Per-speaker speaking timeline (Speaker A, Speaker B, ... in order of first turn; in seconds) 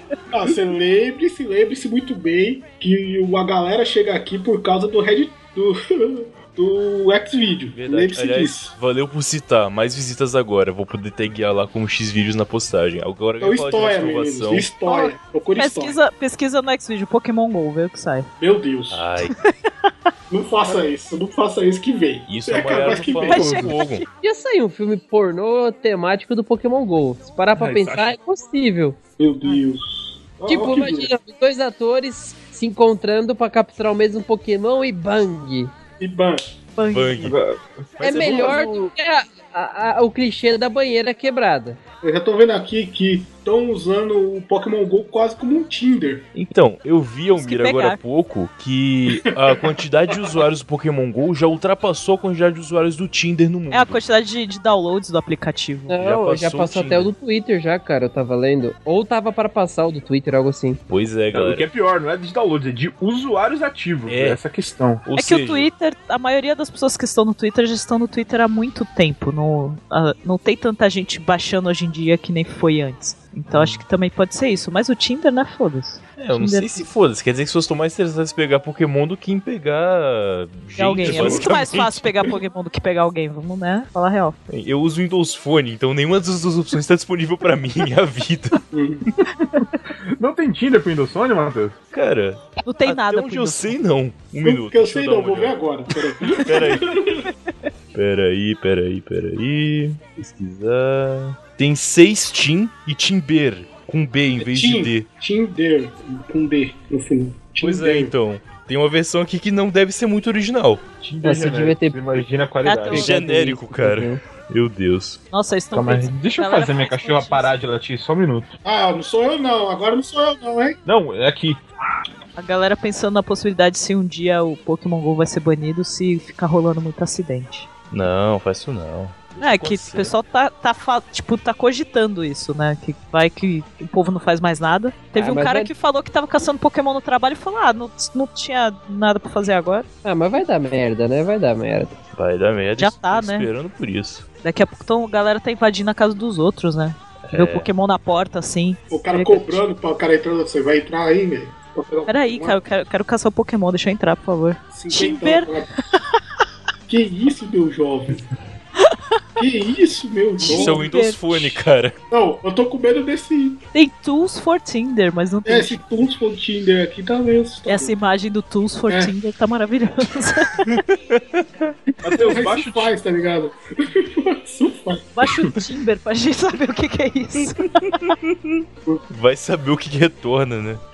Speaker A: 0.3-8.7, 13.4-16.0, 18.4-19.0, 20.3-23.8, 29.2-31.1, 36.0-36.4, 38.1-38.5, 42.0-46.3, 81.1-81.4, 88.7-89.1, 94.4-97.3, 104.4-108.1, 118.6-120.8, 148.9-152.6, 154.7-155.7, 156.9-158.3, 159.4-160.8, 162.1-163.6, 165.5-167.9, 172.2-175.1
Speaker B: 7.7-14.7, 18.9-19.4, 22.3-24.1, 36.9-37.4, 38.0-38.9, 46.4-54.0, 56.0-57.1, 60.9-61.7, 64.1-64.4, 65.0-65.7, 76.2-82.1, 84.5-88.6, 91.9-95.5, 96.2-97.0, 97.9-105.1, 107.6-110.8, 112.9-115.2, 127.9-130.2, 142.1-144.2, 147.3-147.7, 160.4-162.0, 170.7-171.2, 177.9-180.8
Speaker C: 14.8-18.3, 23.2-24.1, 36.8-37.3, 47.4-48.0, 53.7-56.0, 65.2-76.9, 80.8-84.4, 92.7-93.8, 112.7-113.1, 115.3-117.5, 122.4-127.7, 129.4-139.9, 142.8-143.5, 144.4-149.7, 152.1-155.5, 160.4-161.2, 163.7-165.8, 167.7-170.7, 175.2-178.0
Speaker D: 24.2-29.0, 30.5-35.7, 38.0-41.8, 55.9-60.8, 111.2-112.0, 112.9-114.2, 135.2-135.7, 140.1-142.0
Speaker E: 27.5-28.1, 37.2-38.0, 61.3-65.0, 81.1-81.4, 90.2-91.8, 111.0-113.2, 115.7-118.5, 120.8-121.6, 172.0-172.9